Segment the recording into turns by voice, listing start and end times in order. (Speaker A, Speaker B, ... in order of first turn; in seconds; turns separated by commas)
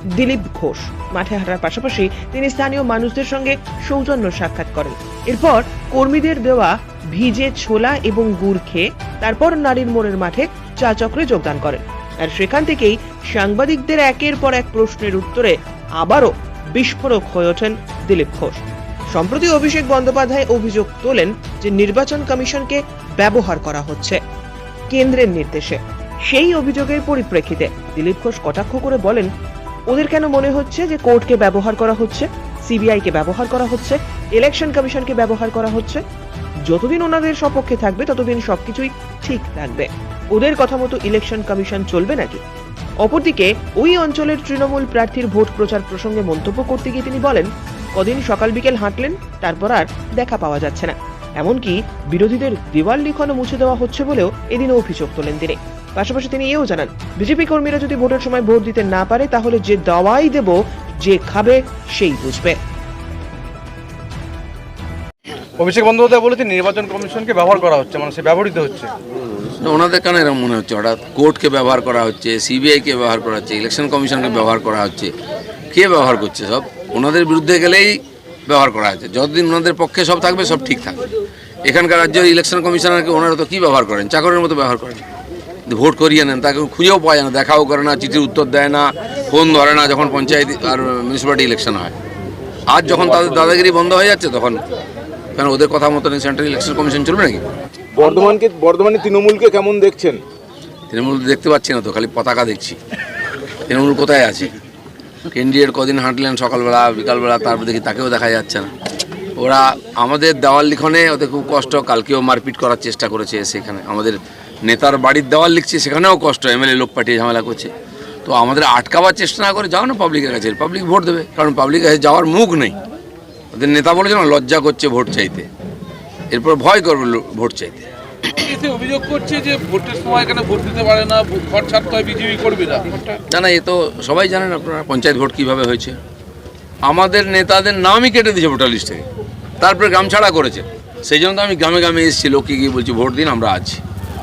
Speaker A: 0.2-18.6, Speaker A: 19.1-24.2, Speaker A: 24.9-29.3, Speaker A: 29.9-36.0, Speaker A: 36.7-42.4, Speaker A: 43.0-62.6, Speaker B: 65.6-68.9, Speaker C: 69.6-75.1, Speaker C: 75.7-81.0, Speaker C: 81.6-85.0, Speaker C: 85.7-92.0, Speaker C: 92.7-94.6, Speaker C: 95.4-97.4, Speaker D: 98.0-100.2, Speaker C: 100.9-102.8, Speaker C: 103.7-104.5, Speaker C: 105.3-108.7, Speaker C: 109.4-117.7, Speaker C: 118.2-122.8, Speaker C: 123.5-125.5, Speaker C: 126.3-127.9, Speaker E: 128.3-133.2, Speaker C: 133.3-136.0, Speaker C: 136.9-139.1, Speaker C: 139.6-143.8